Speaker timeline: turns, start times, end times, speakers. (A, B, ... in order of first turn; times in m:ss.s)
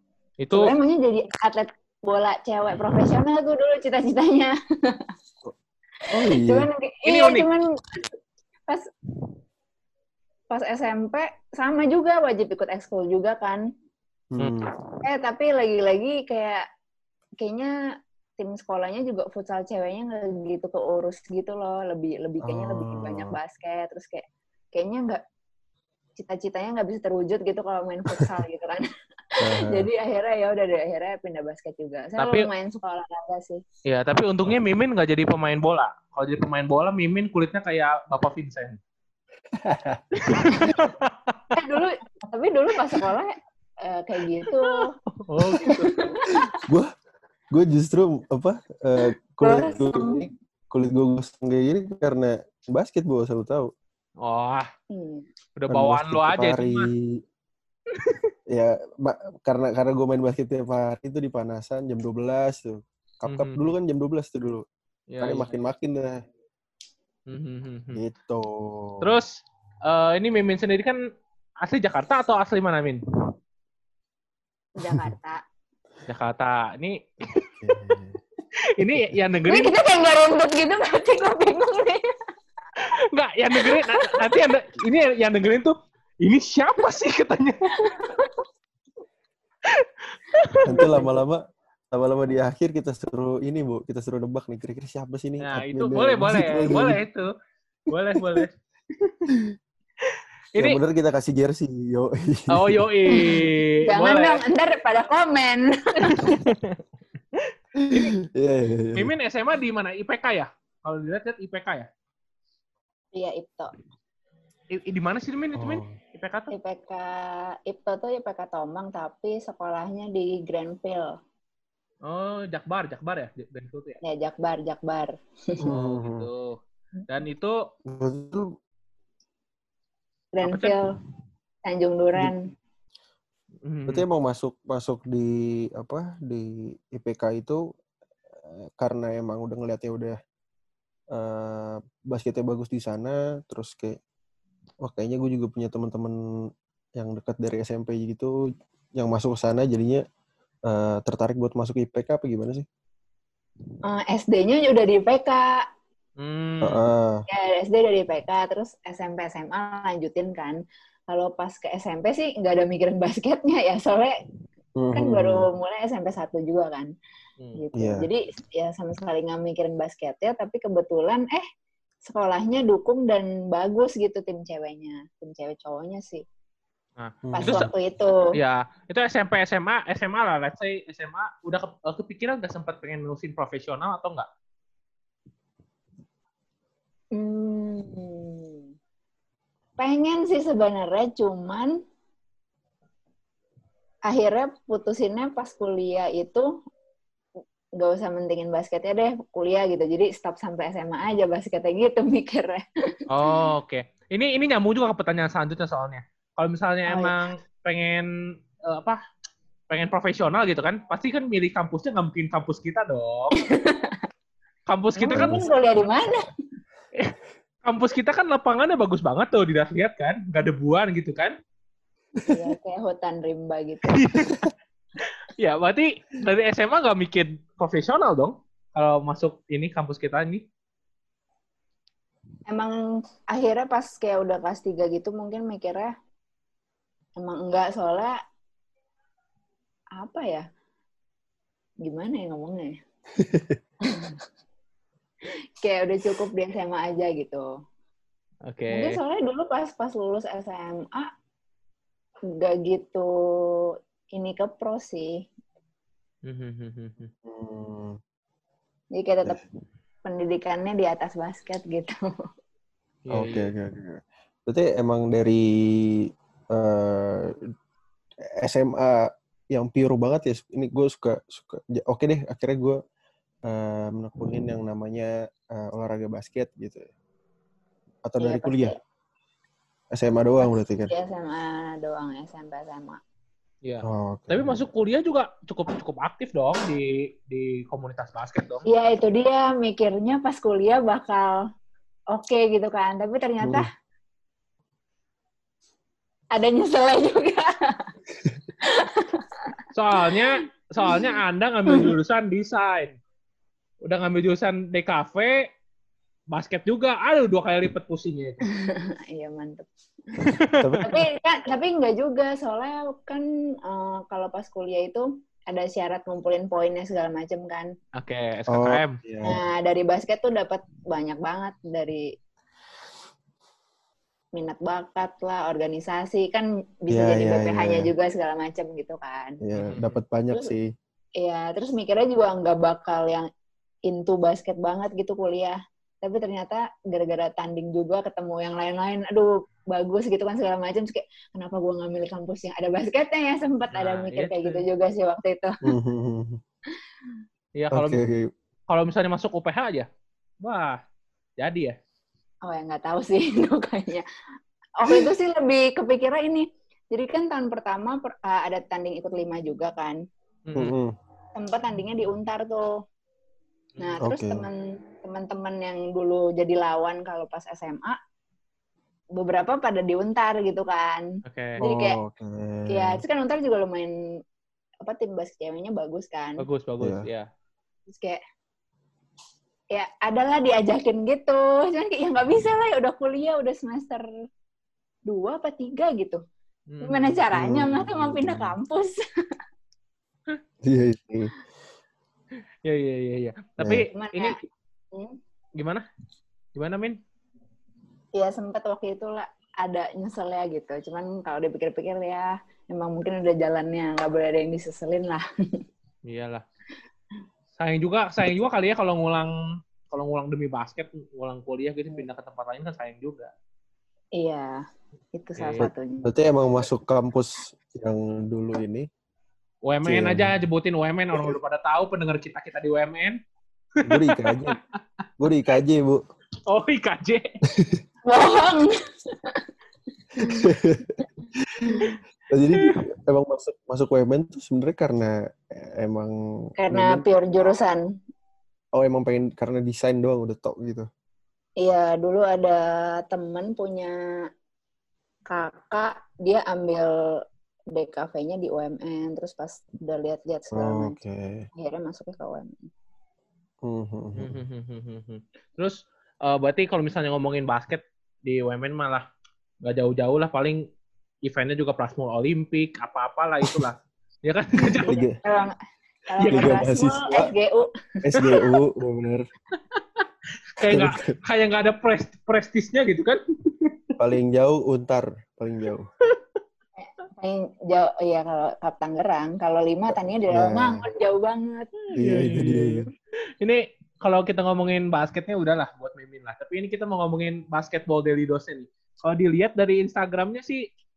0:00.4-0:00.7 A
0:00.5-0:05.1 B
0:06.1-0:06.7 C
0:06.3-0:08.0 B
0:07.0-0:07.5 A
0:10.5-0:13.6 B
0:14.3-0:14.7 C
0:14.4-0:15.0 A
0:15.0-0:16.6 B
0:17.4-0:17.7 B
0:18.4-0:25.2 B
0:22.4-0:23.4 C
0:26.2-0:28.8 B
0:29.4-0:29.9 C
0:29.5-0:33.6 B
0:32.2-0:32.5 A
0:33.8-0:38.8 A
0:39.6-0:40.6 C
0:40.2-0:41.5 A
0:41.6-0:44.9 B
0:44.4-0:46.1 A
0:45.6-0:46.5 B
0:46.6-0:46.9 C
0:47.5-0:53.7 C
0:49.4-0:50.2 B
0:54.2-0:54.7 A
0:54.9-0:55.3 B
0:55.6-0:56.9 A
0:55.7-0:57.1 C
0:58.5-1:04.6 C
1:03.3-1:03.6 A
1:05.1-1:05.6 A
1:05.2-1:06.2 C
1:07.3-1:08.0 A
1:07.9-1:09.2 C
1:09.0-1:09.3 A
1:09.9-1:11.0 A
1:11.6-1:13.0 A
1:14.8-1:15.4 B
1:16.1-1:17.4 A
1:17.6-1:18.2 C
1:18.8-1:19.7 A
1:19.5-1:22.0 B
1:22.8-1:28.0 A
1:23.6-1:24.2 B
1:27.8-1:28.4 B
1:29.8-1:30.6 A
1:30.6-1:31.2 B
1:30.6-1:31.4 C
1:31.9-1:37.0 C
1:35.4-1:37.3 A
1:37.9-1:39.2 A
1:38.2-1:38.4 C
1:39.3-1:39.5 C
1:40.6-1:42.8 C
1:42.5-1:44.4 A
1:43.1-1:46.4 B
1:46.0-1:46.8 A
1:47.4-1:48.0 A
1:47.7-1:49.1 C
1:48.9-1:51.9 A
1:53.1-1:53.7 B
1:54.7-1:56.5 A
1:55.5-1:56.0 C
1:56.5-2:01.2 B
2:02.0-2:04.0 A
2:04.0-2:05.6 B
2:05.6-2:06.3 C
2:05.6-2:07.7 A
2:07.9-2:08.5 C
2:10.3-2:10.9 B
2:10.4-2:10.8 A
2:11.6-2:12.4 B
2:13.6-2:14.0 A
2:13.9-2:17.6 C
2:18.3-2:20.2 C
2:21.1-2:24.0 C
2:24.8-2:26.2 C
2:27.0-2:28.3 C
2:29.0-2:30.0 C
2:30.7-2:32.6 C
2:33.8-2:35.7 B
2:36.2-2:36.8 A
2:36.6-2:37.2 C
2:37.3-2:44.2 B
2:44.8-2:45.4 C
2:44.9-2:46.9 B
2:47.6-2:51.4 B
2:47.8-2:48.1 C
2:52.0-2:56.2 B
2:57.0-2:57.7 A
2:57.2-2:57.7 C
2:57.3-2:58.3 B
2:58.3-3:04.3 A
3:07.1-3:08.6 B
3:09.8-3:11.8 B
3:14.1-3:16.5 B
3:17.8-3:22.6 B
3:23.1-3:28.1 A
3:26.9-3:27.1 B
3:28.6-3:29.0 A
3:29.7-3:33.4 A
3:33.4-3:34.0 B
3:34.7-3:35.4 A
3:35.0-3:36.3 B
3:35.2-3:35.5 C
3:37.6-3:41.3 A
3:42.2-3:42.5 C
3:42.3-3:44.1 B
3:43.8-3:44.5 A
3:45.4-3:50.4 A
3:52.5-3:55.9 B
3:57.2-3:58.2 B
4:00.0-4:00.5 B
4:01.8-4:02.8 B
4:03.2-4:03.6 C
4:03.8-4:04.2 B
4:05.6-4:07.5 B
4:08.5-4:09.0 A
4:08.7-4:11.1 B
4:12.3-4:15.2 B
4:16.2-4:17.1 A
4:17.2-4:18.0 C
4:18.9-4:19.4 B
4:20.0-4:22.0 B
4:23.1-4:23.5 A
4:23.1-4:27.3 C
4:28.4-4:32.8 C
4:33.4-4:36.9 C
4:38.0-4:38.7 C
4:38.2-4:38.8 B
4:39.9-4:40.9 C
4:40.4-4:43.0 B
4:43.6-4:48.6 A
4:43.8-4:44.6 C
4:48.7-4:51.4 B
4:52.1-4:53.7 B
4:53.4-4:53.7 C
4:56.3-4:57.9 B
4:58.6-4:59.6 B
4:59.7-5:03.0 A
5:00.8-5:01.2 B
5:03.8-5:05.5 A
5:06.3-5:08.4 A
5:08.5-5:10.3 B
5:10.2-5:10.7 A
5:10.6-5:11.0 C
5:10.8-5:17.7 B
5:18.0-5:19.0 A
5:18.5-5:19.4 C
5:19.2-5:22.1 B
5:24.3-5:29.4 B
5:26.9-5:27.9 C
5:29.4-5:30.7 C
5:29.6-5:30.0 A
5:31.2-5:33.3 B
5:33.8-5:45.7 B
5:43.7-5:44.6 A
5:45.6-5:46.4 C
5:47.6-5:48.0 A
5:47.7-5:48.3 C
5:48.7-5:49.9 A
5:50.4-5:50.8 A
5:51.4-5:51.8 A
5:52.4-5:54.0 B
5:54.8-6:00.0 B
6:00.5-6:00.7 A
6:00.6-6:00.9 C
6:01.4-6:02.7 B
6:03.8-6:08.0 B
6:04.0-6:04.5 C
6:09.1-6:12.0 B
6:11.2-6:11.6 A
6:11.6-6:13.0 C
6:12.7-6:14.0 B
6:14.8-6:16.4 B
6:16.4-6:17.3 A
6:16.8-6:17.0 C
6:17.9-6:18.2 B
6:19.7-6:24.0 B
6:25.0-6:26.2 B
6:26.7-6:27.2 A
6:26.8-6:29.0 B
6:27.3-6:28.5 C
6:30.6-6:31.3 C
6:32.6-6:34.5 A
6:33.6-6:33.8 C
6:33.9-6:34.4 B
6:35.6-6:35.8 A
6:36.5-6:37.0 A
6:38.1-6:45.2 B
6:46.1-6:46.4 A
6:47.6-6:53.3 A
6:54.2-6:54.6 B
6:55.1-6:56.1 B
6:55.4-6:55.6 A
6:55.6-6:58.9 C
6:59.6-7:03.2 A
6:59.8-7:00.3 C
7:03.8-7:04.6 C
7:04.0-7:04.5 A
7:05.2-7:06.0 C
7:06.5-7:07.3 A
7:07.5-7:07.8 C
7:08.1-7:09.4 B
7:10.2-7:17.0 C
7:10.2-7:10.5 B
7:16.6-7:17.8 B
7:18.7-7:20.9 C
7:21.6-7:24.0 B
7:25.3-7:30.9 B
7:30.5-7:31.5 C
7:31.6-7:32.7 B
7:33.6-7:34.4 C
7:34.2-7:39.0 A
7:39.6-7:40.6 A
7:41.2-7:45.1 A
7:44.8-7:45.2 C
7:45.2-7:45.5 B
7:46.1-7:48.4 B
7:46.2-7:46.6 A
7:46.2-7:47.3 C
7:48.0-7:49.2 C
7:49.7-7:50.0 A
7:50.6-7:53.7 A
7:50.6-7:51.1 C
7:54.0-7:55.9 C
7:56.8-8:01.7 B
8:00.3-8:00.9 C
8:02.0-8:02.8 A
8:02.0-8:02.8 C
8:03.4-8:10.6 A